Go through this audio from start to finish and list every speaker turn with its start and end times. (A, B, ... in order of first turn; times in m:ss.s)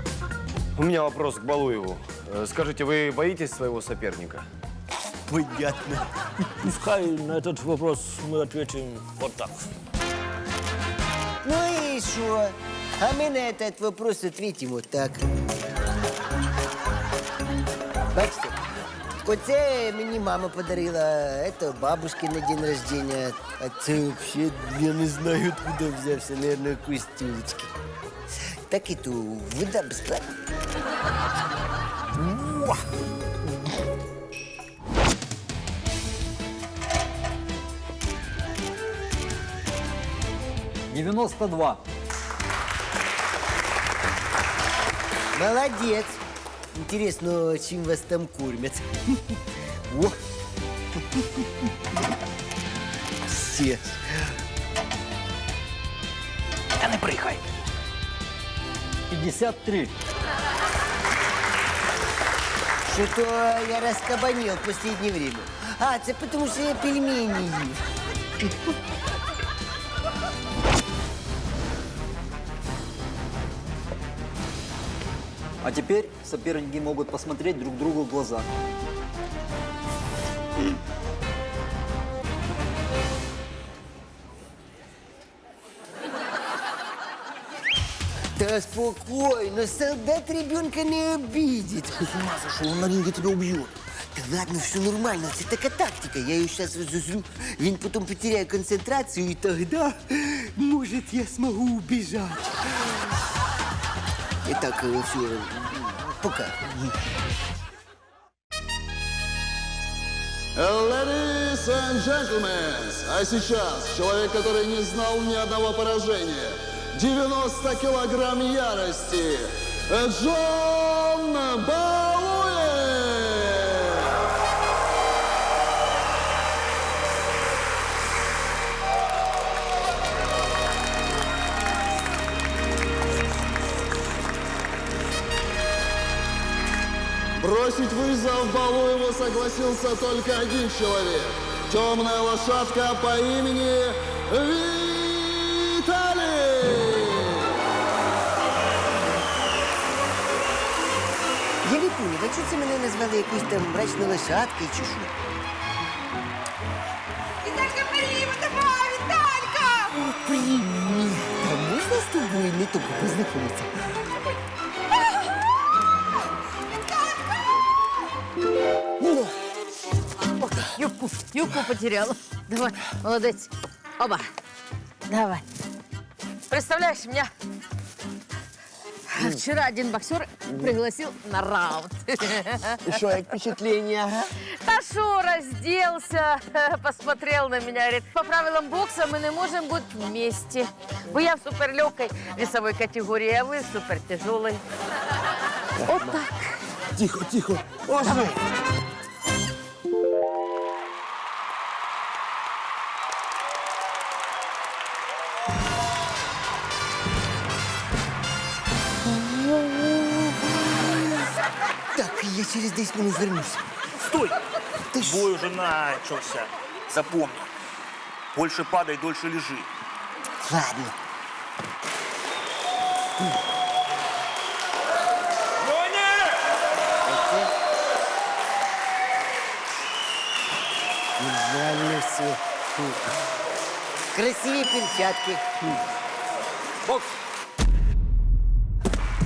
0:01.0-0:04.3 A
0:05.3-0:06.0 B
0:06.6-0:09.6 C
0:11.4-0:15.3 B
0:18.1-0:18.6 B
0:19.2-0:27.7 B
0:28.7-0:30.3 B
0:40.9-0:41.8 D
0:45.3-0:46.2 B
0:46.7-0:48.8 B
0:49.9-0:50.2 B
0:53.3-0:54.0 B
0:59.1-0:59.9 D
1:02.8-1:07.8 B
1:15.6-1:18.5 D
1:28.4-1:32.4 B
1:33.2-1:43.0 B
1:44.4-1:46.9 B
1:50.6-2:04.1 E
2:17.4-2:27.4 E
2:31.6-2:35.1 B
2:37.4-2:39.9 F
2:39.9-2:43.7 B
2:46.9-2:47.2 F
2:50.4-2:54.3 F
2:55.1-2:55.4 F
2:56.5-2:57.3 F
2:59.1-3:02.9 F
3:02.9-3:04.2 G
3:04.6-3:14.6 F
3:15.8-3:16.3 F
3:17.0-3:17.9 G
3:18.0-3:18.3 F
3:29.2-3:31.2 B
3:31.9-3:33.6 B
3:34.1-3:34.4 H
3:34.9-3:35.3 B
3:35.0-3:37.5 H
3:38.3-3:39.7 H
3:40.4-3:41.0 B
3:47.0-3:47.5 B
3:51.2-3:53.0 B
3:54.1-3:55.5 B